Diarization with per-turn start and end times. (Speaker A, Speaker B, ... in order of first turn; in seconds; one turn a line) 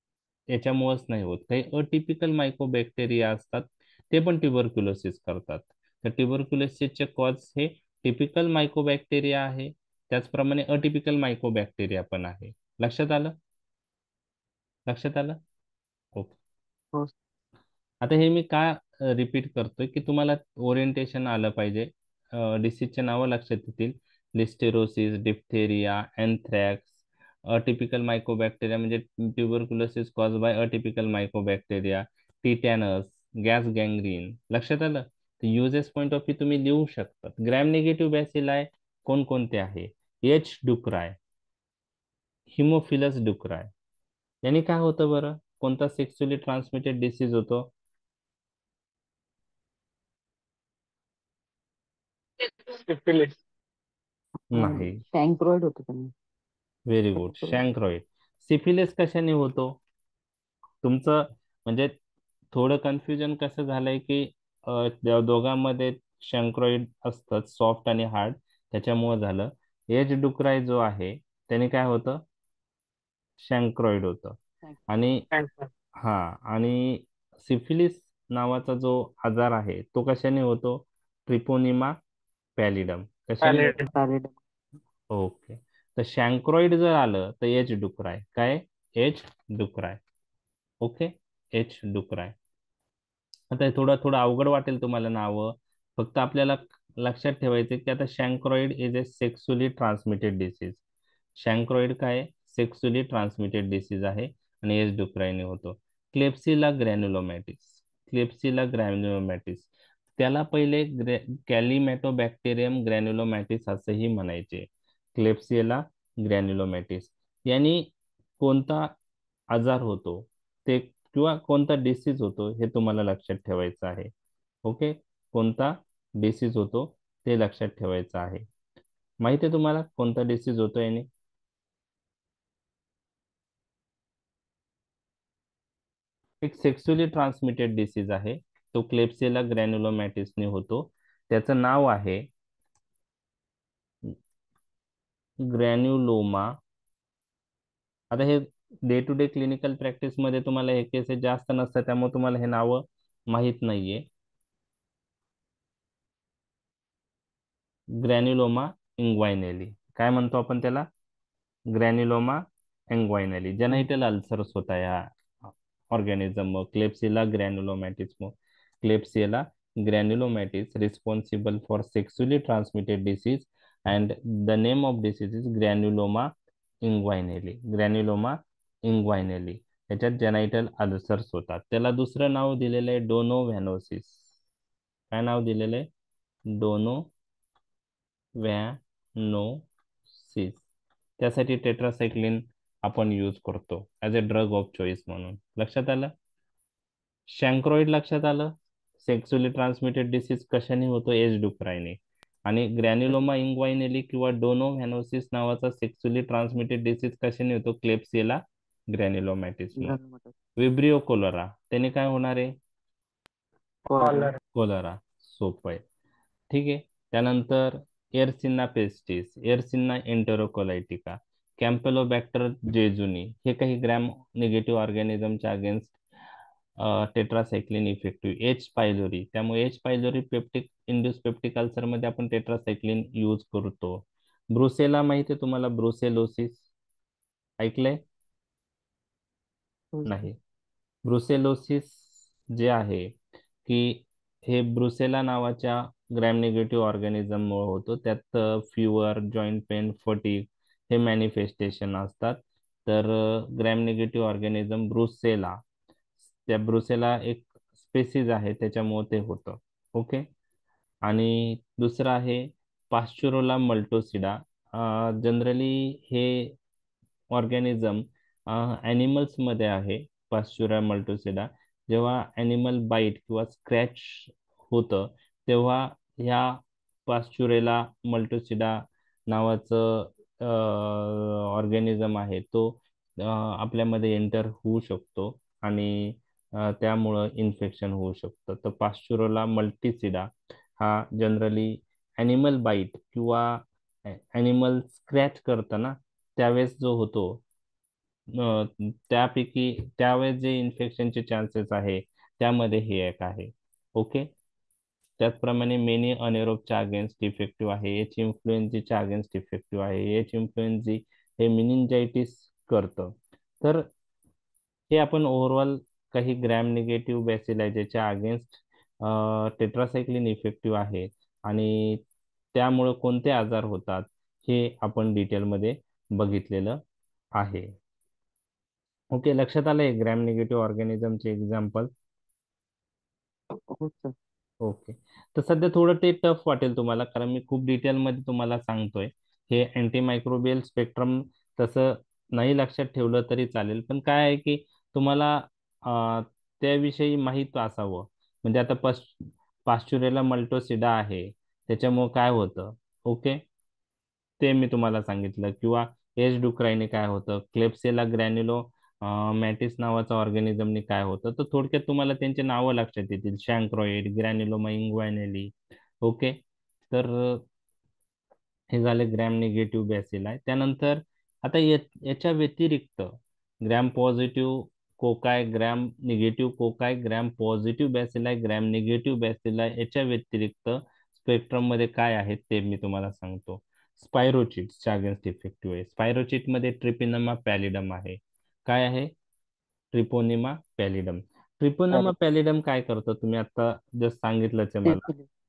Speaker A: 0.5-13.3
Speaker A: 14.9-15.4
Speaker A: 18.0-26.9
Speaker A: 27.5-41.2
Speaker A: 42.5-43.7
Speaker A: 44.4-47.7
Speaker B: 52.5-53.4
Speaker A: 54.5-55.0
Speaker C: 54.5-56.1
Speaker A: 56.9-59.8
Speaker C: 57.2-57.6
Speaker A: 60.8-62.0
Speaker A: 62.5-72.2
Speaker A: 73.4-74.4
Speaker A: 74.9-75.2
Speaker B: 75.3-75.7
Speaker A: 76.0-82.0
Speaker A: 82.6-83.8
Speaker B: 83.4-83.9
Speaker C: 83.8-84.3
Speaker A: 85.1-90.0
Speaker A: 90.8-92.3
Speaker A: 93.5-100.8
Speaker A: 101.4-118.9
Speaker A: 119.5-124.1
Speaker A: 124.7-128.4
Speaker A: 129.2-131.1
Speaker A: 136.4-142.3
Speaker A: 145.4-146.6
Speaker A: 148.1-154.1
Speaker A: 158.0-160.9
Speaker A: 161.7-165.1
Speaker A: 165.9-176.3
Speaker A: 176.8-184.3
Speaker A: 185.1-185.9
Speaker A: 186.5-187.1
Speaker A: 188.4-190.6
Speaker A: 191.2-196.1
Speaker A: 197.3-210.0
Speaker C: 209.8-210.3
Speaker A: 210.6-212.5
Speaker C: 213.9-214.3
Speaker B: 214.0-214.4
Speaker A: 214.5-215.8
Speaker A: 216.5-226.0
Speaker A: 226.8-234.0
Speaker A: 234.5-236.7
Speaker A: 237.6-238.0
Speaker C: 239.9-240.3
Speaker A: 240.1-240.3
Speaker A: 241.1-255.6
Speaker A: 256.4-260.3
Speaker A: 261.1-266.6
Speaker A: 267.3-297.4
Speaker A: 298.3-304.3
Speaker A: 305.2-313.9
Speaker A: 314.9-322.0
Speaker A: 322.5-326.8
Speaker A: 327.4-327.7
Speaker A: 329.1-331.9
Speaker C: 333.5-334.1
Speaker A: 334.6-353.4
Speaker A: 354.4-366.4
Speaker A: 366.9-367.4
Speaker A: 368.7-389.1
Speaker A: 389.9-395.1
Speaker C: 394.9-395.2